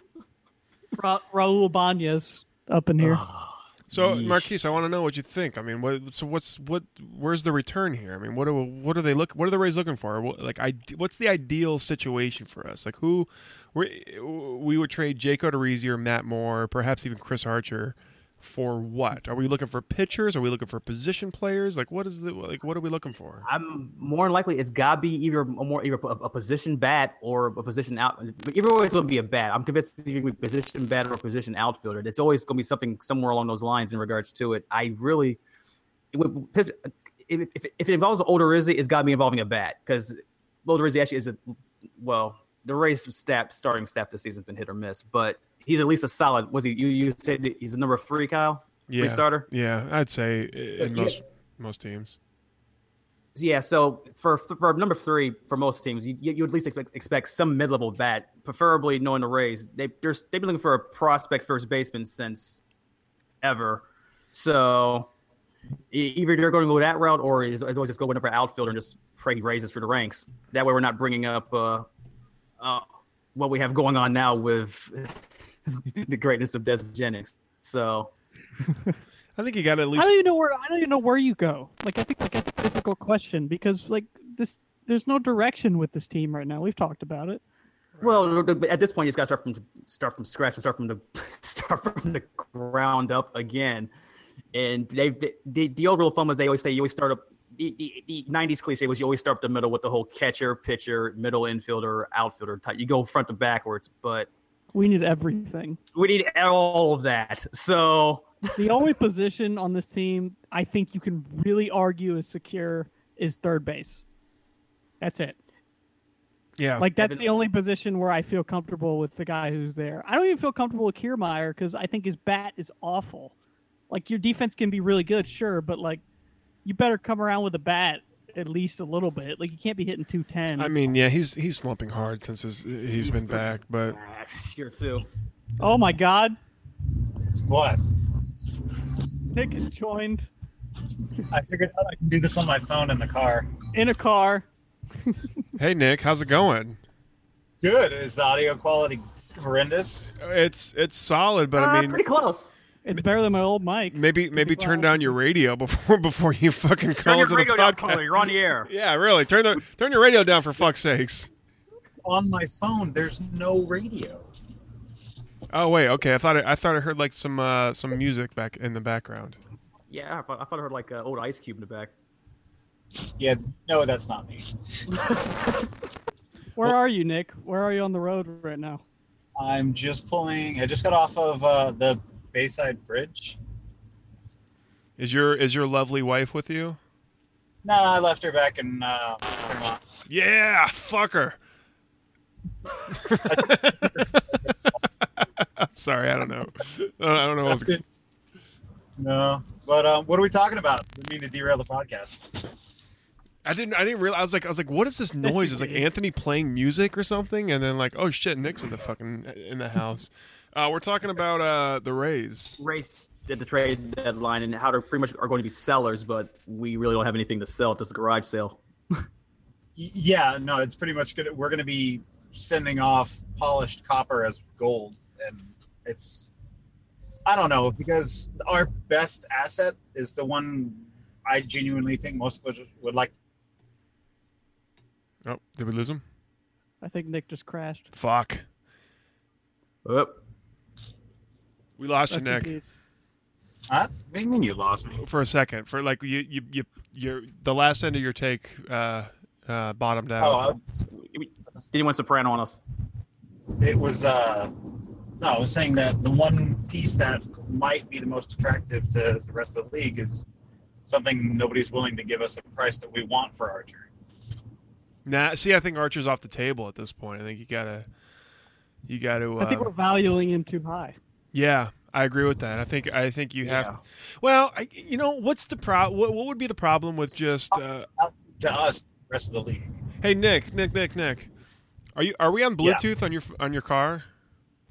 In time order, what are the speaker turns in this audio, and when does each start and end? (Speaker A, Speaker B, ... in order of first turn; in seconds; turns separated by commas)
Speaker A: 1.0-3.2, Speaker B: 3.0-4.5, Speaker C: 3.9-23.5, Speaker B: 23.5-35.4, Speaker B: 36.1-41.4, Speaker B: 42.0-49.5, Speaker C: 48.9-52.2, Speaker B: 50.8-51.2, Speaker B: 53.4-62.6, Speaker B: 63.4-65.1, Speaker B: 65.9-71.9, Speaker B: 72.6-78.1, Speaker C: 79.4-80.1, Speaker A: 80.0-87.4, Speaker B: 88.0-93.9, Speaker B: 94.5-104.3, Speaker A: 104.7-105.8, Speaker B: 106.0-108.5, Speaker A: 108.6-114.0, Speaker A: 115.0-115.4, Speaker C: 116.6-116.9, Speaker A: 116.8-123.3, Speaker B: 117.0-117.2, Speaker A: 123.9-126.0, Speaker A: 126.7-130.7, Speaker C: 130.6-134.0, Speaker B: 132.9-135.1, Speaker A: 135.6-136.4, Speaker D: 137.5-137.8, Speaker A: 139.3-140.3, Speaker D: 141.3-143.5, Speaker A: 143.7-144.5, Speaker C: 145.6-146.8, Speaker D: 147.6-150.2, Speaker C: 150.2-152.0, Speaker B: 151.6-152.5, Speaker A: 152.8-155.2, Speaker C: 153.9-161.3, Speaker B: 157.0-158.7, Speaker D: 162.0-164.3, Speaker C: 165.5-169.4, Speaker B: 169.9-171.9, Speaker D: 173.2-174.5, Speaker B: 175.0-175.4, Speaker A: 176.6-178.8, Speaker D: 179.4-183.4, Speaker C: 185.0-186.8, Speaker D: 187.6-189.8, Speaker C: 190.1-191.4, Speaker C: 192.9-197.8, Speaker D: 193.1-194.5, Speaker D: 197.4-197.8, Speaker D: 199.0-202.4, Speaker C: 203.4-212.6, Speaker A: 205.2-205.9, Speaker B: 212.6-219.0, Speaker D: 219.8-226.3, Speaker D: 227.3-233.1, Speaker C: 235.2-236.0, Speaker A: 236.8-237.9, Speaker C: 237.9-238.4, Speaker B: 239.8-240.2, Speaker C: 241.8-242.6, Speaker A: 242.1-242.8, Speaker D: 243.7-245.0, Speaker C: 245.0-250.5, Speaker D: 250.2-250.8, Speaker B: 251.0-252.6, Speaker D: 253.6-254.5, Speaker D: 255.2-260.2, Speaker D: 260.9-263.9, Speaker C: 265.1-267.9, Speaker C: 268.9-269.7, Speaker A: 269.4-271.0, Speaker C: 271.3-277.9, Speaker B: 273.4-273.8, Speaker D: 277.5-279.7, Speaker C: 280.0-281.3, Speaker C: 282.0-284.1